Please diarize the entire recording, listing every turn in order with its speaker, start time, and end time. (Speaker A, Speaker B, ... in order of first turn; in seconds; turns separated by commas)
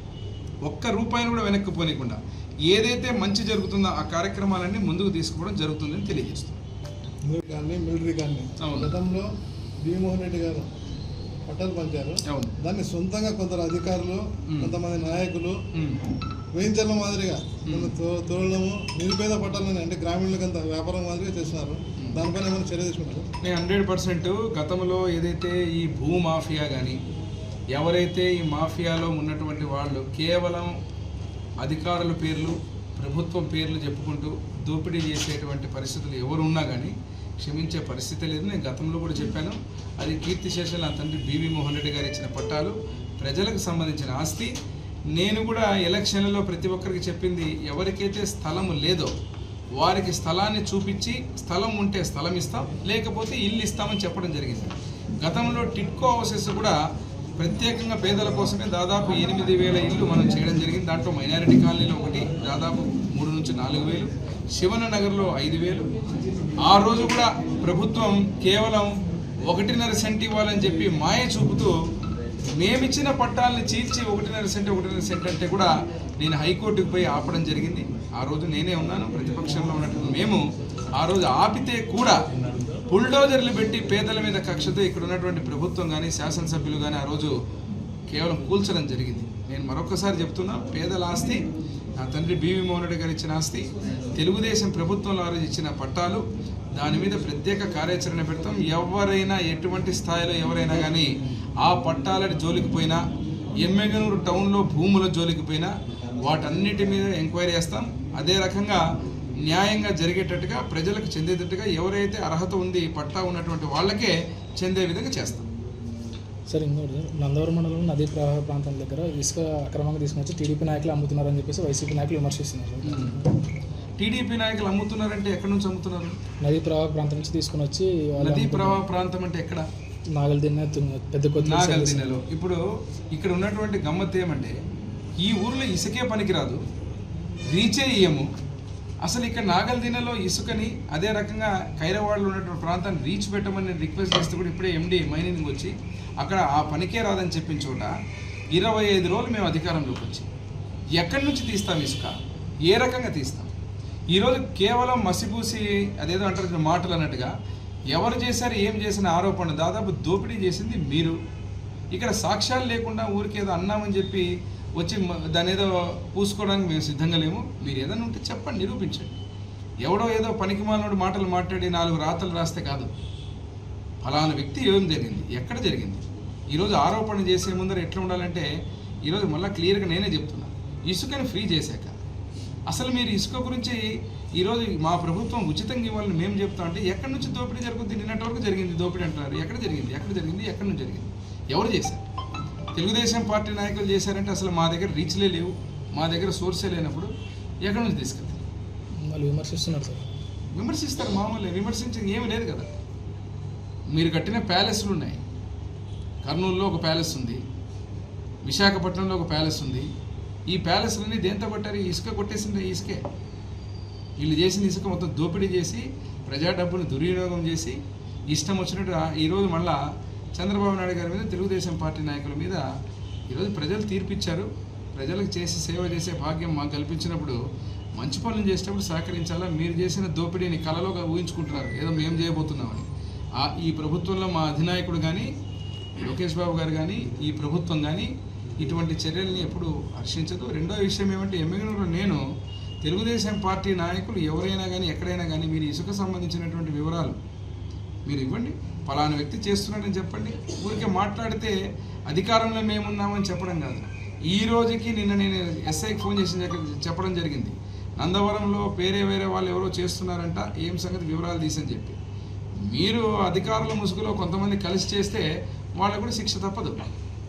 Speaker A: 0.7-6.6, Speaker B: 7.3-9.3, Speaker A: 8.6-8.9, Speaker B: 9.8-10.7, Speaker B: 11.5-15.6, Speaker A: 12.3-12.5, Speaker A: 14.5-14.8, Speaker B: 16.6-23.3, Speaker A: 17.6-17.9, Speaker A: 23.4-27.0, Speaker A: 27.7-30.7, Speaker A: 31.6-44.5, Speaker A: 45.1-49.1, Speaker A: 49.8-56.8, Speaker A: 57.4-65.9, Speaker A: 66.7-68.9, Speaker A: 69.5-71.7, Speaker A: 72.6-80.4, Speaker A: 81.0-82.2, Speaker A: 82.9-87.3, Speaker A: 88.1-91.4, Speaker A: 92.0-96.2, Speaker A: 96.8-101.1, Speaker A: 101.6-103.0, Speaker A: 103.6-108.8, Speaker A: 109.5-115.5, Speaker C: 116.5-123.2, Speaker A: 122.8-123.2, Speaker A: 124.0-126.2, Speaker C: 126.4-128.8, Speaker A: 128.2-129.7, Speaker C: 130.1-132.2, Speaker A: 131.4-132.6, Speaker A: 133.1-134.6, Speaker A: 135.2-136.6, Speaker A: 137.5-138.3, Speaker A: 139.0-147.9, Speaker A: 148.5-150.3, Speaker A: 151.0-152.1, Speaker A: 152.7-153.5, Speaker A: 154.1-157.3, Speaker A: 157.9-161.2, Speaker A: 161.9-164.3, Speaker A: 164.8-169.2, Speaker A: 169.8-172.9, Speaker A: 174.0-178.5, Speaker A: 179.1-182.0, Speaker A: 182.7-183.8, Speaker A: 184.4-192.0, Speaker A: 192.8-197.1, Speaker A: 197.6-198.4, Speaker C: 199.0-200.1, Speaker A: 200.6-202.7, Speaker A: 203.9-205.2, Speaker A: 206.2-207.4, Speaker A: 208.4-209.9, Speaker A: 210.5-213.0, Speaker A: 214.2-217.8, Speaker A: 218.3-219.8, Speaker A: 220.4-222.6, Speaker A: 223.3-227.4, Speaker A: 228.0-232.9, Speaker A: 233.4-235.3, Speaker A: 236.0-242.2, Speaker A: 242.8-247.2, Speaker A: 248.1-251.6, Speaker A: 252.1-262.0, Speaker A: 262.7-265.3, Speaker A: 265.8-266.9